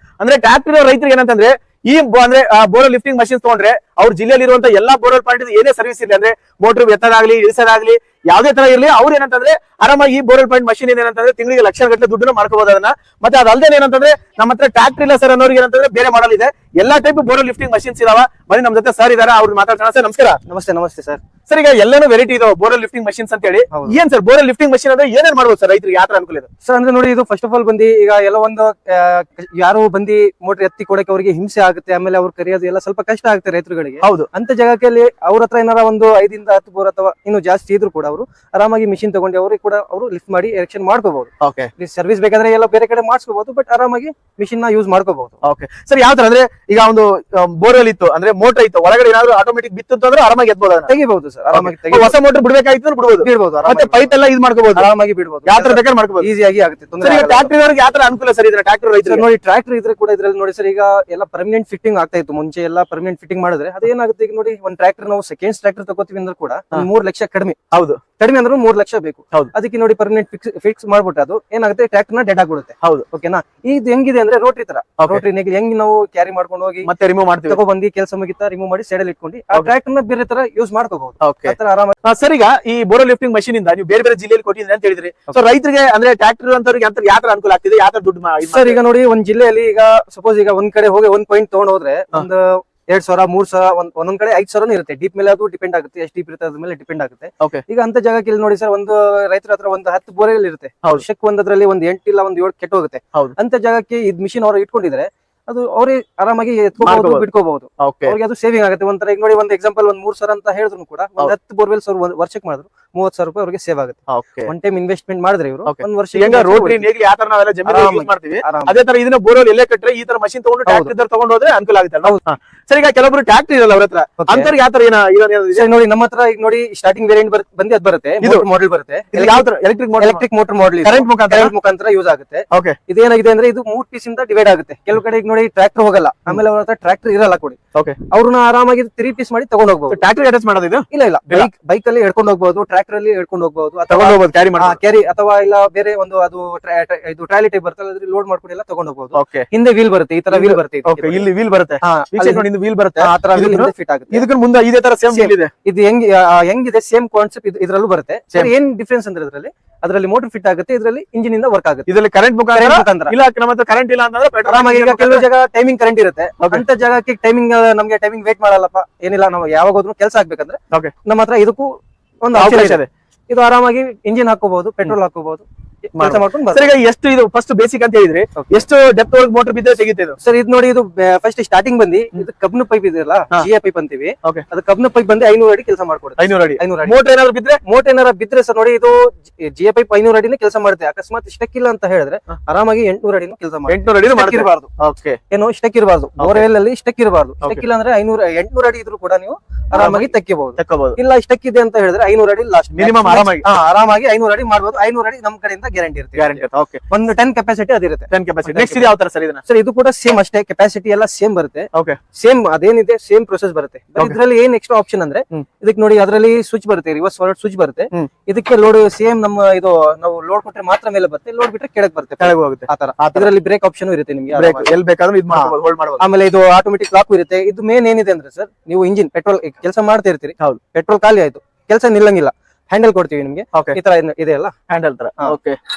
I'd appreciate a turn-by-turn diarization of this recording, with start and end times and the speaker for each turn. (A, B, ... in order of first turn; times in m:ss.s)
0:00.2-0:20.4 A
0:20.5-0:21.2 B
0:21.5-0:26.5 A
0:23.7-0:24.0 B
0:26.6-0:45.4 B
0:34.0-0:34.3 A
0:41.4-0:41.7 A
0:45.4-0:50.9 A
0:50.9-0:52.1 B
0:51.5-0:54.9 A
0:53.2-0:54.2 B
0:54.8-0:57.5 B
0:55.4-0:56.3 A
0:57.0-0:59.2 A
0:59.0-1:07.6 B
1:07.7-1:08.0 A
1:08.2-1:16.9 B
1:16.8-1:17.6 A
1:17.5-1:22.0 B
1:21.2-1:28.8 A
1:28.4-1:56.9 B
1:46.8-1:47.2 A
1:47.8-1:48.1 A
1:54.1-1:54.5 A
1:55.6-2:05.7 A
1:57.6-1:58.8 B
2:00.6-2:00.9 B
2:04.2-2:04.5 B
2:05.5-2:17.6 B
2:09.1-2:10.2 A
2:10.8-2:11.5 A
2:12.5-2:12.8 A
2:18.1-2:20.0 B
2:19.9-2:21.5 A
2:20.9-2:31.3 B
2:23.9-2:24.8 A
2:29.1-2:29.5 A
2:30.3-2:35.5 A
2:31.8-2:32.5 B
2:33.0-2:34.2 B
2:35.1-2:41.9 B
2:41.9-2:45.2 A
2:42.5-2:43.2 B
2:44.5-2:56.7 B
2:52.3-2:52.9 A
2:56.0-3:00.2 A
2:58.4-2:58.6 B
3:00.2-3:07.0 B
3:06.2-3:07.6 A
3:07.6-3:14.7 B
3:13.7-3:15.2 A
3:15.3-3:28.9 B
3:16.2-3:16.5 A
3:19.7-3:21.0 A
3:22.8-3:23.4 A
3:26.2-3:26.8 A
3:28.1-3:29.4 A
3:29.4-3:44.8 B
3:31.7-3:32.0 A
3:42.2-3:43.3 A
3:44.3-3:46.0 A
3:45.3-3:54.5 B
3:54.7-3:55.6 A